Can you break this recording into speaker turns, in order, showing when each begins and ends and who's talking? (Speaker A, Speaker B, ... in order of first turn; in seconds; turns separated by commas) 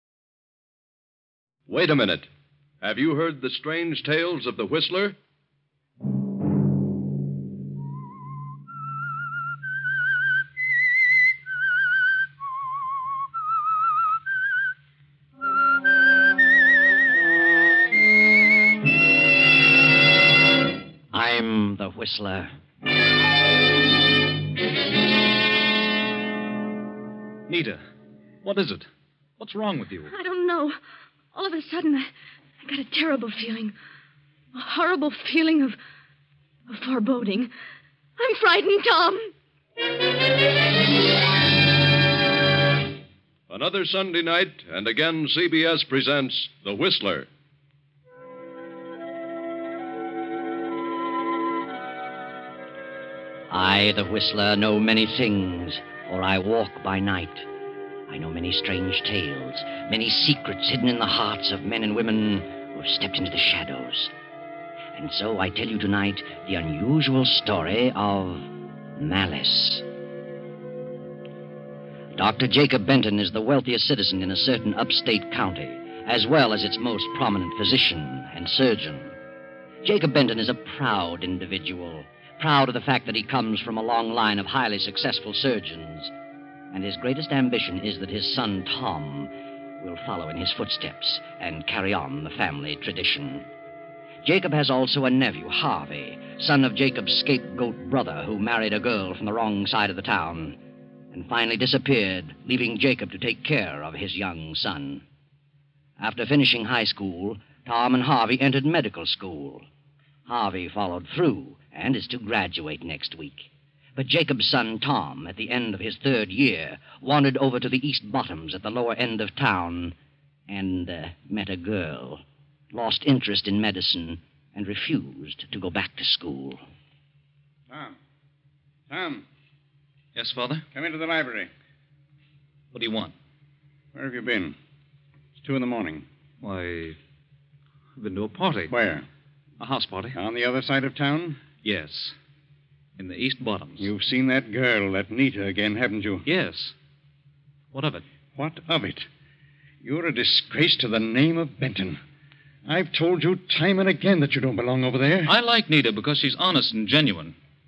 Speaker A: 1.7-2.3, Speaker A: 2.8-5.2, Speaker B: 21.1-22.5, Speaker C: 27.5-27.8, Speaker C: 28.4-28.9, Speaker C: 29.4-30.1, Speaker D: 30.1-30.8, Speaker D: 31.3-32.1, Speaker D: 32.6-33.7, Speaker D: 34.5-35.8, Speaker D: 36.7-37.5, Speaker D: 38.2-39.3, Speaker A: 43.5-47.3, Speaker B: 53.5-57.5, Speaker B: 58.1-64.1, Speaker B: 64.9-69.8, Speaker B: 72.1-79.1, Speaker B: 79.8-86.1, Speaker B: 86.7-93.5, Speaker B: 94.2-100.6, Speaker B: 101.1-105.0, Speaker B: 106.0-109.7, Speaker B: 110.3-119.9, Speaker B: 120.5-126.6, Speaker E: 127.7-128.0, Speaker E: 128.9-129.2, Speaker C: 130.1-130.6, Speaker E: 130.7-131.5, Speaker C: 132.7-133.1, Speaker E: 133.9-134.5, Speaker E: 135.4-136.0, Speaker C: 136.4-137.0, Speaker C: 137.9-138.7, Speaker E: 138.7-139.1, Speaker C: 139.6-140.2, Speaker E: 140.1-141.4, Speaker C: 141.6-142.2, Speaker C: 143.0-143.9, Speaker E: 143.8-146.3, Speaker C: 146.3-146.7, Speaker C: 147.7-148.0, Speaker E: 148.3-149.1, Speaker E: 149.8-152.0, Speaker E: 152.7-155.3, Speaker C: 155.2-157.3